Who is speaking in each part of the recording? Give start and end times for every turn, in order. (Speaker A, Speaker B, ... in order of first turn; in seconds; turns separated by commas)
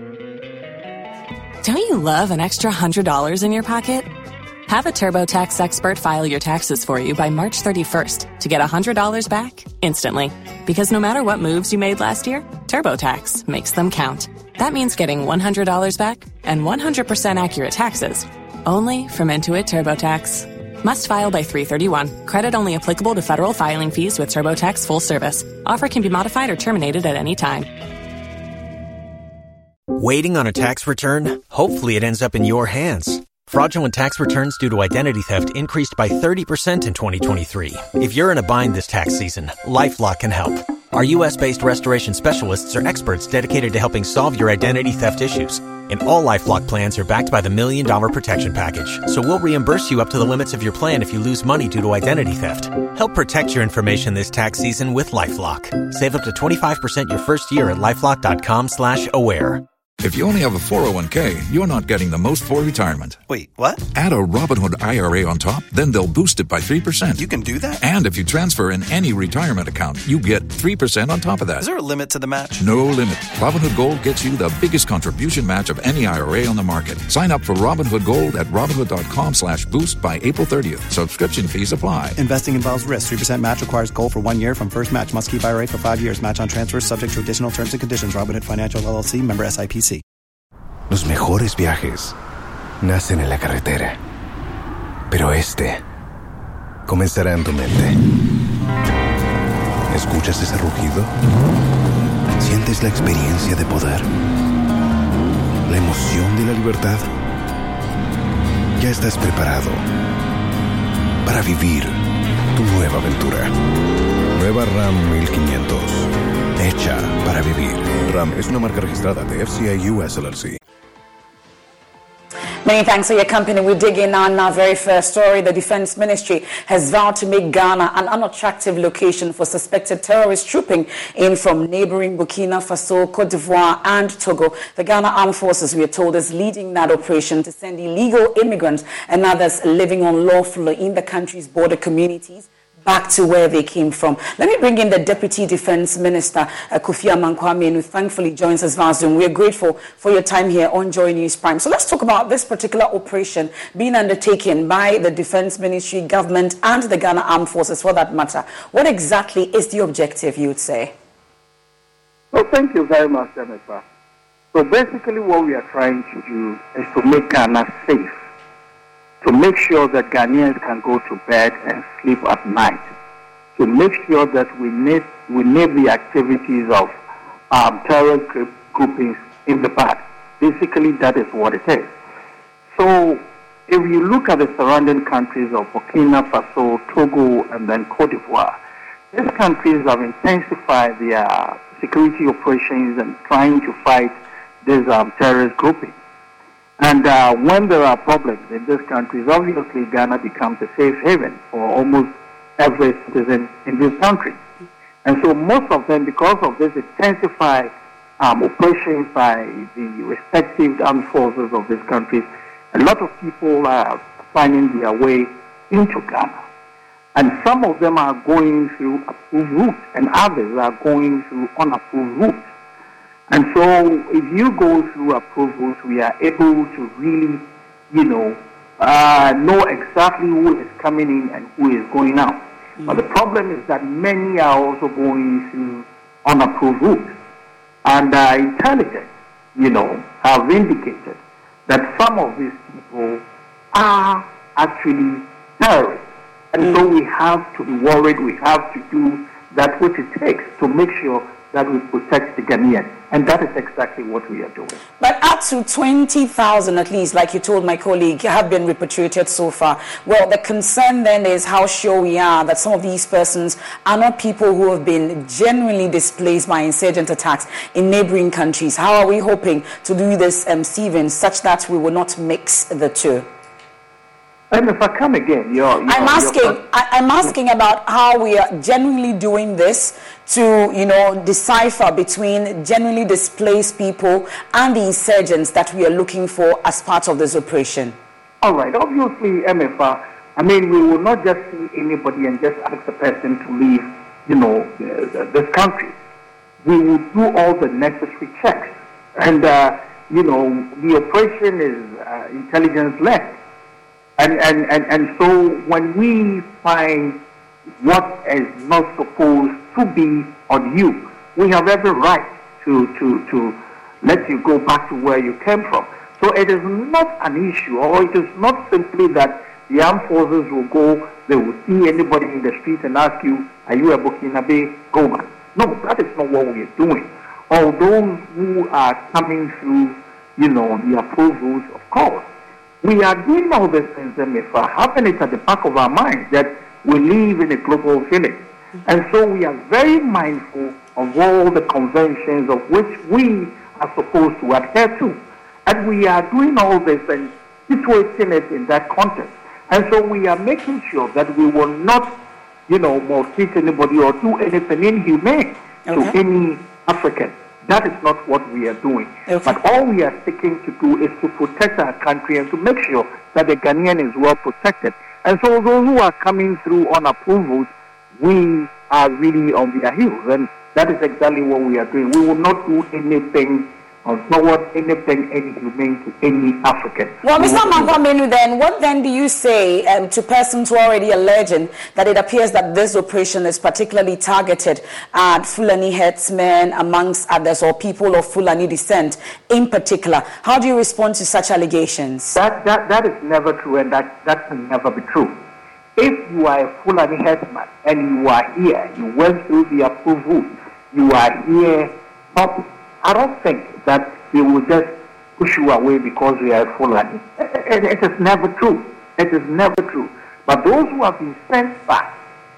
Speaker A: 1.6-4.1, Speaker A: 4.7-27.7, Speaker B: 29.9-59.6, Speaker C: 60.0-63.2, Speaker D: 63.3-63.8, Speaker C: 63.9-71.7, Speaker D: 67.2-67.7, Speaker D: 71.6-72.6, Speaker C: 72.6-82.2, Speaker E: 82.2-90.0, Speaker F: 90.9-92.1, Speaker F: 92.8-94.0, Speaker F: 95.1-95.8, Speaker F: 96.9-98.0, Speaker F: 99.9-101.1, Speaker F: 102.4-104.1, Speaker F: 105.7-107.1, Speaker F: 108.8-109.8, Speaker F: 111.2-113.5, Speaker F: 114.3-120.6, Speaker G: 122.6-160.9, Speaker H: 162.3-163.8, Speaker H: 164.5-168.1, Speaker H: 169.2-172.9, Speaker H: 173.6-176.9, Speaker H: 177.5-181.9, Speaker H: 182.7-188.6, Speaker H: 189.1-195.9, Speaker H: 196.8-204.4, Speaker H: 205.0-216.4, Speaker H: 217.1-222.4, Speaker H: 223.3-237.1, Speaker H: 237.8-254.8, Speaker G: 255.0-273.3, Speaker H: 274.5-276.6, Speaker G: 275.9-288.0, Speaker H: 288.4-295.9, Speaker H: 296.6-303.4, Speaker H: 304.2-307.2, Speaker H: 307.8-332.3, Speaker H: 332.8-378.0, Speaker G: 355.9-356.1, Speaker G: 359.3-359.6, Speaker G: 377.2-392.4, Speaker H: 392.3-395.4, Speaker H: 395.9-412.1